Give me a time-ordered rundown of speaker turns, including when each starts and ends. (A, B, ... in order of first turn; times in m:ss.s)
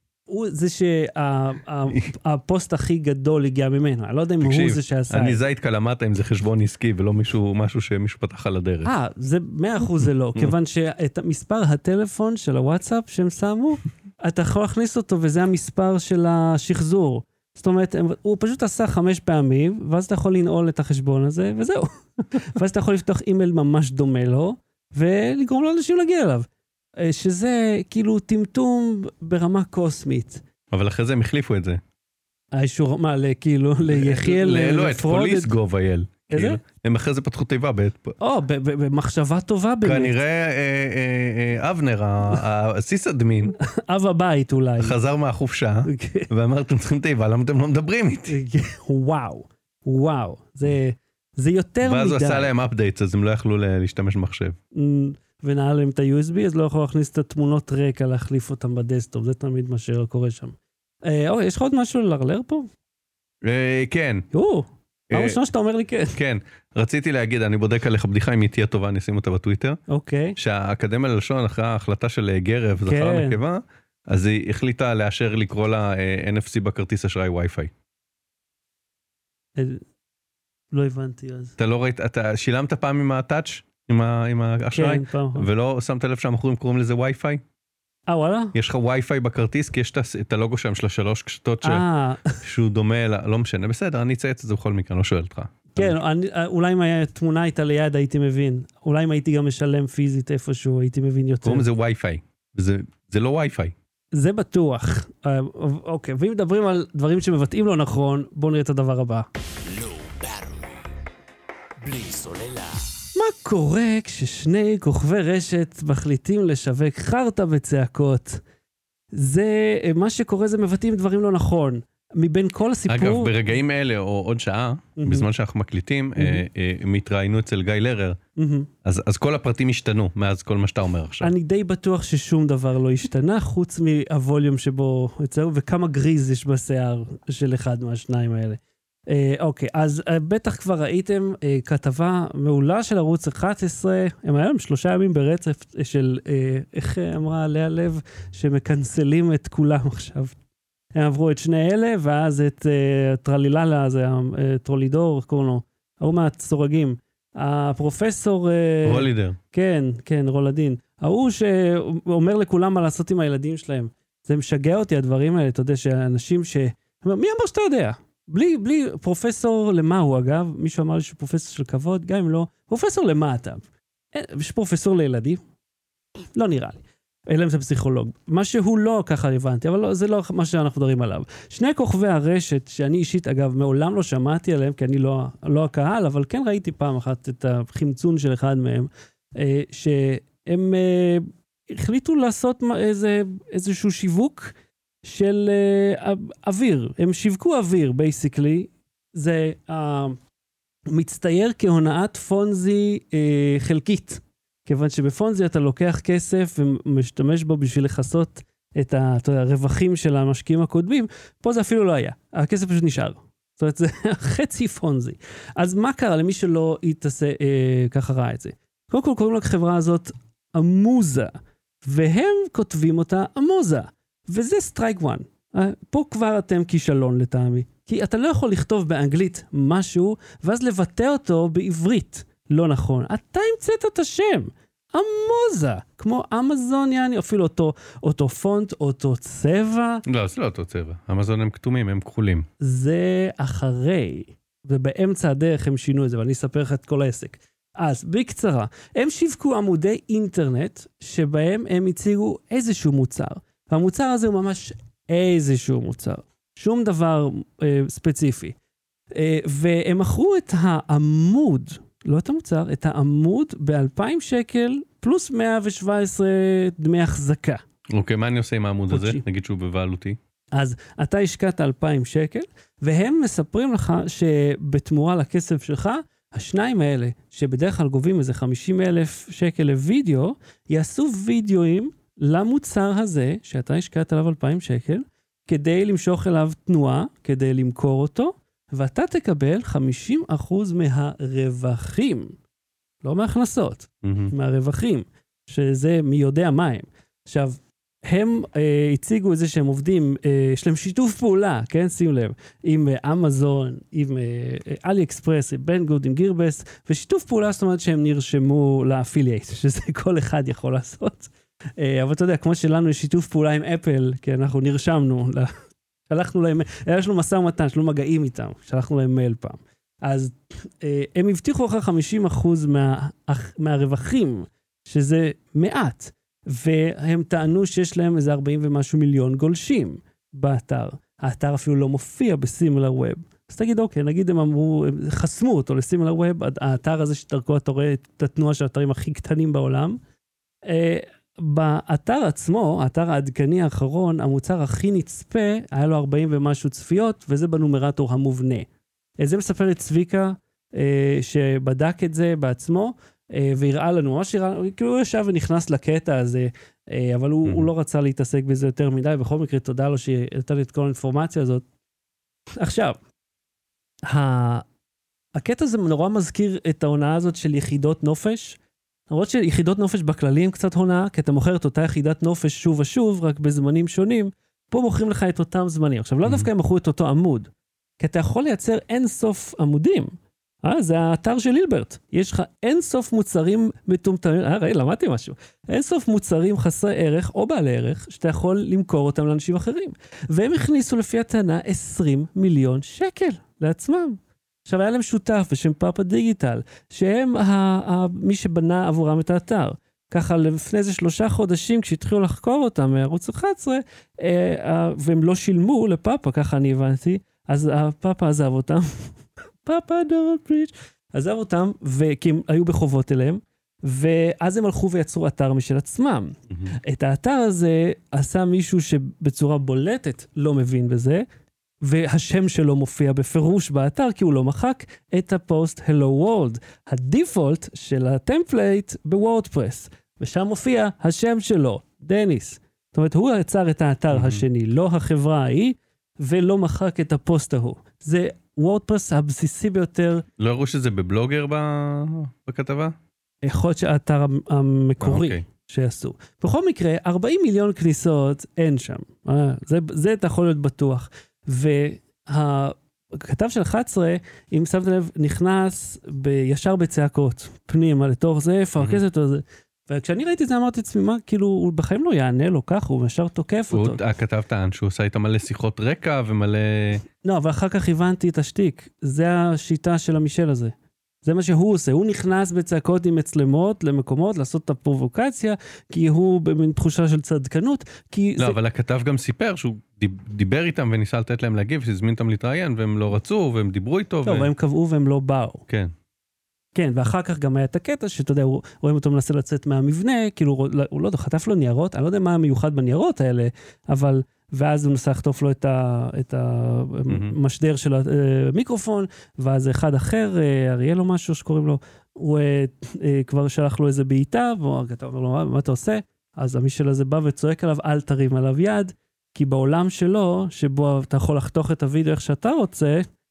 0:00.3-0:05.4 A
0:04.4-0:08.9 B
0:08.8-0:26.5 A
0:10.0-0:10.5 B
0:27.0-0:30.4 A
0:30.7-0:31.8 B
0:32.5-0:35.5 A
0:33.9-0:38.1 B
0:36.3-0:36.6 A
0:38.2-0:40.2 A
0:39.8-0:43.6 B
0:43.6-0:44.9 A
0:44.8-0:48.4 B
0:45.8-0:46.3 A
0:48.3-0:52.5 A
0:51.8-0:54.6 B
0:54.7-1:02.7 A
1:03.4-1:04.3 B
1:04.3-1:06.2 A
1:05.1-1:05.4 B
1:06.2-1:09.8 B
1:09.9-1:10.4 A
1:10.4-1:17.7 B
1:12.8-1:13.4 A
1:19.6-1:19.8 A
1:20.7-1:21.6 A
1:21.6-1:27.4 B
1:24.7-1:25.5 A
1:28.1-1:28.6 A
1:28.6-1:31.8 B
1:31.6-1:32.4 A
1:32.4-1:36.0 B
1:35.7-1:41.7 A
1:41.4-1:43.7 B
1:44.1-1:49.3 A
1:49.6-1:50.9 C
1:51.8-1:53.0 C
1:53.2-1:58.4 A
1:59.1-2:03.3 A
2:02.9-2:08.2 B
2:05.0-2:05.3 A
2:06.2-2:06.4 A
2:08.4-2:08.7 A
2:08.8-2:11.3 B
2:11.2-2:30.4 A
2:30.9-2:55.4 A
2:38.8-2:39.4 B
2:56.3-3:20.2 A
3:20.9-3:41.3 A
3:41.8-4:00.0 A
4:00.1-4:02.4 B
4:02.6-4:18.6 A
4:19.1-4:27.6 A
4:27.9-4:30.2 B
4:28.9-4:29.2 A
4:30.5-4:52.4 A
4:53.0-5:15.5 A
4:54.0-4:54.3 B
5:16.1-5:40.0 A
5:40.7-5:48.7 A
5:49.2-6:01.6 A
6:02.6-6:03.0 A
6:04.1-6:04.7 A
6:05.3-6:08.6 A
6:09.1-7:01.2 A
7:01.8-7:20.2 A
7:14.1-7:14.4 B
7:20.4-7:22.9 B
7:23.4-7:44.0 A
7:25.0-7:25.4 B
7:43.7-7:47.0 B
7:47.2-7:58.6 A
7:58.4-8:04.5 B
8:04.2-8:05.6 A
8:05.7-8:05.9 B
8:06.8-8:33.1 A
8:17.1-8:17.4 B